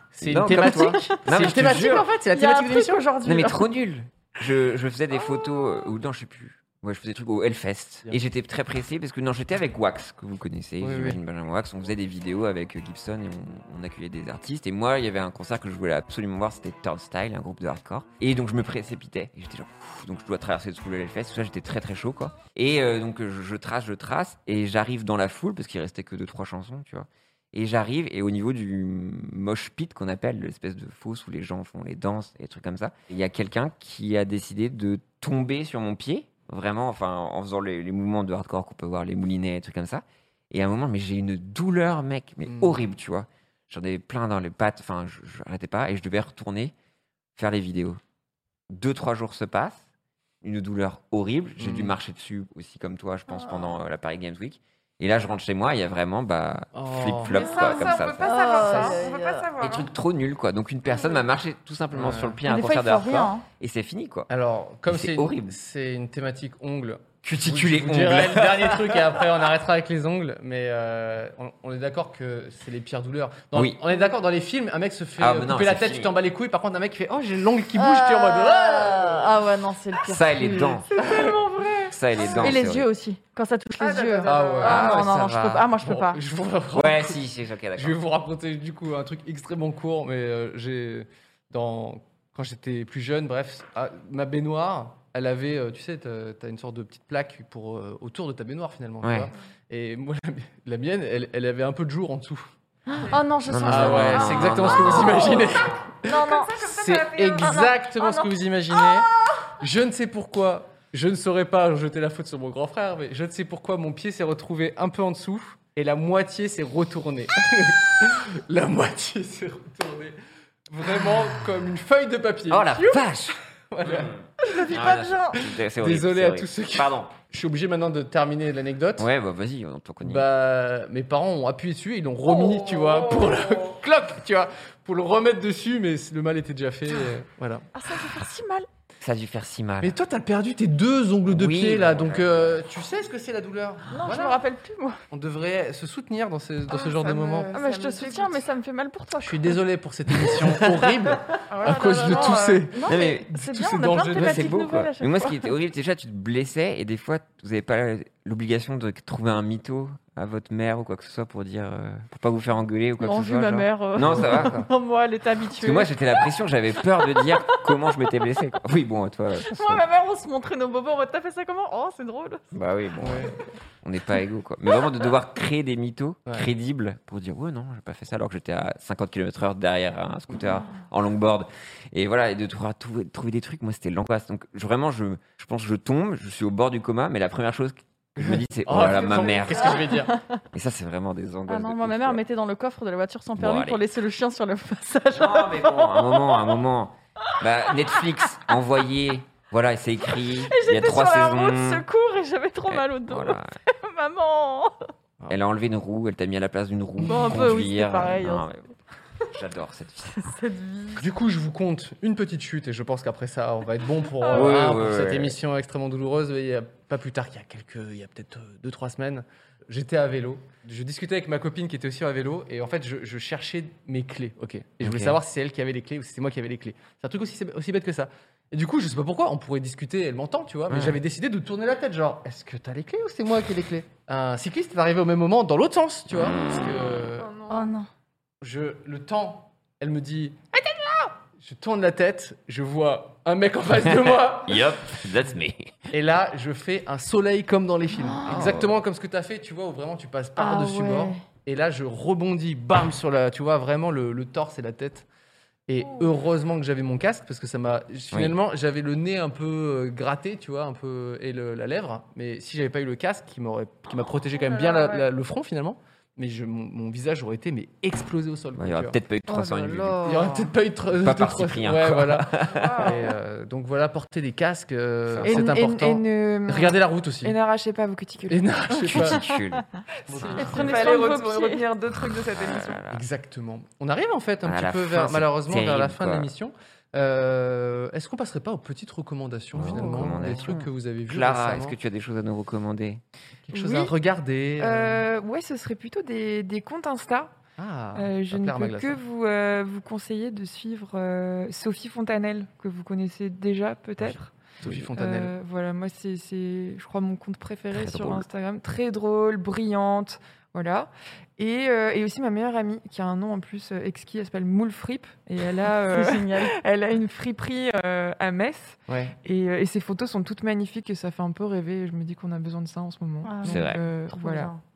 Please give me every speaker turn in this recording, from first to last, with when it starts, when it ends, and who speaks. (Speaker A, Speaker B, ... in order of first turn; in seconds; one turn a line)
Speaker A: 0.1-3.1
Speaker B: 0.2-2.1
Speaker C: 0.6-3.6
Speaker B: 3.2-46.7
Speaker A: 10.8-11.2
Speaker A: 42.5-42.8
Speaker B: 47.4-48.0
Speaker B: 48.7-49.9
Speaker B: 50.4-58.4
Speaker A: 51.6-52.0
Speaker C: 53.3-53.7
Speaker A: 56.7-57.4
Speaker D: 57.3-59.9
Speaker C: 57.4-59.5
Speaker A: 58.6-59.0
Speaker B: 59.6-64.3
Speaker A: 61.9-62.4
Speaker C: 62.5-63.4
Speaker A: 64.3-79.3
Speaker B: 64.9-65.5
Speaker B: 67.2-69.2
Speaker B: 75.2-76.1
Speaker C: 77.8-86.2
Speaker B: 80.0-80.9
Speaker A: 81.0-81.3
Speaker B: 81.9-82.9
Speaker A: 82.2-82.6
Speaker D: 83.8-85.0
Speaker A: 84.2-87.2
Speaker B: 84.6-85.6
Speaker B: 86.7-88.0
Speaker A: 87.8-102.5
Speaker B: 99.0-99.3
Speaker C: 102.9-105.5
Speaker B: 103.5-105.5
Speaker A: 103.7-120.2
Speaker D: 106.0-107.9
Speaker C: 106.1-106.5
Speaker C: 107.4-108.2
Speaker A: 120.7-123.1
Speaker B: 122.5-127.1
Speaker A: 123.7-124.1
Speaker C: 124.4-125.3
Speaker A: 125.3-129.1
Speaker B: 129.0-130.2
Speaker A: 130.0-137.7
Speaker C: 137.7-138.7
Speaker B: 139.0-140.0
Speaker A: 139.8-144.4
Speaker B: 141.3-142.6
Speaker C: 143.9-145.0
Speaker A: 145.1-147.5
Speaker D: 146.7-148.5
Speaker C: 147.5-149.6
Speaker A: 149.2-154.6
Speaker D: 151.5-152.7
Speaker C: 151.7-155.5
Speaker B: 152.9-153.3
Speaker B: 154.2-164.7
Speaker C: 163.0-166.2
Speaker A: 164.0-164.5
Speaker B: 165.6-169.8
Speaker C: 167.1-167.6
Speaker C: 169.4-172.5
Speaker B: 172.5-189.8
Speaker A: 173.0-173.3
Speaker A: 188.2-190.1
Speaker C: 189.8-190.3
Speaker B: 190.5-192.2
Speaker C: 191.5-196.4
Speaker B: 193.4-193.8
Speaker B: 195.1-201.8
Speaker C: 200.5-204.9
Speaker B: 202.7-203.6
Speaker B: 205.3-208.6
Speaker C: 207.0-208.7
Speaker B: 209.3-210.2
Speaker C: 210.1-211.0
Speaker A: 211.0-237.3
Speaker C: 214.2-214.5
Speaker B: 214.3-215.3
Speaker B: 224.8-225.2
Speaker B: 230.7-231.0
Speaker B: 236.2-236.9
Speaker D: 236.5-237.8
Speaker C: 237.5-237.9
Speaker A: 238.4-244.8
Speaker B: 244.2-245.8
Speaker A: 245.9-255.1
Speaker B: 248.3-248.7
Speaker C: 250.4-251.1
Speaker A: 255.7-269.0
Speaker D: 264.5-265.0
Speaker B: 268.6-270.1
Speaker C: 269.3-270.5
Speaker A: 270.0-277.4
Speaker B: 270.9-272.7
Speaker D: 272.5-273.0
Speaker B: 275.1-275.4
Speaker D: 275.2-279.1
Speaker A: 278.3-279.2
Speaker B: 279.0-279.7
Speaker A: 280.1-281.0
Speaker C: 280.2-281.7
Speaker D: 280.3-282.8
Speaker B: 282.1-283.0
Speaker A: 282.9-291.8
Speaker B: 284.5-286.3
Speaker B: 289.5-293.0
Speaker C: 289.7-290.4
Speaker A: 293.5-295.1
Speaker D: 293.5-293.9
Speaker D: 294.6-297.3
Speaker A: 297.6-299.0
Speaker D: 297.9-324.5
Speaker A: 304.6-305.4
Speaker B: 307.7-308.3
Speaker C: 315.9-316.5
Speaker A: 318.9-319.1
Speaker C: 323.2-324.6
Speaker B: 323.5-323.8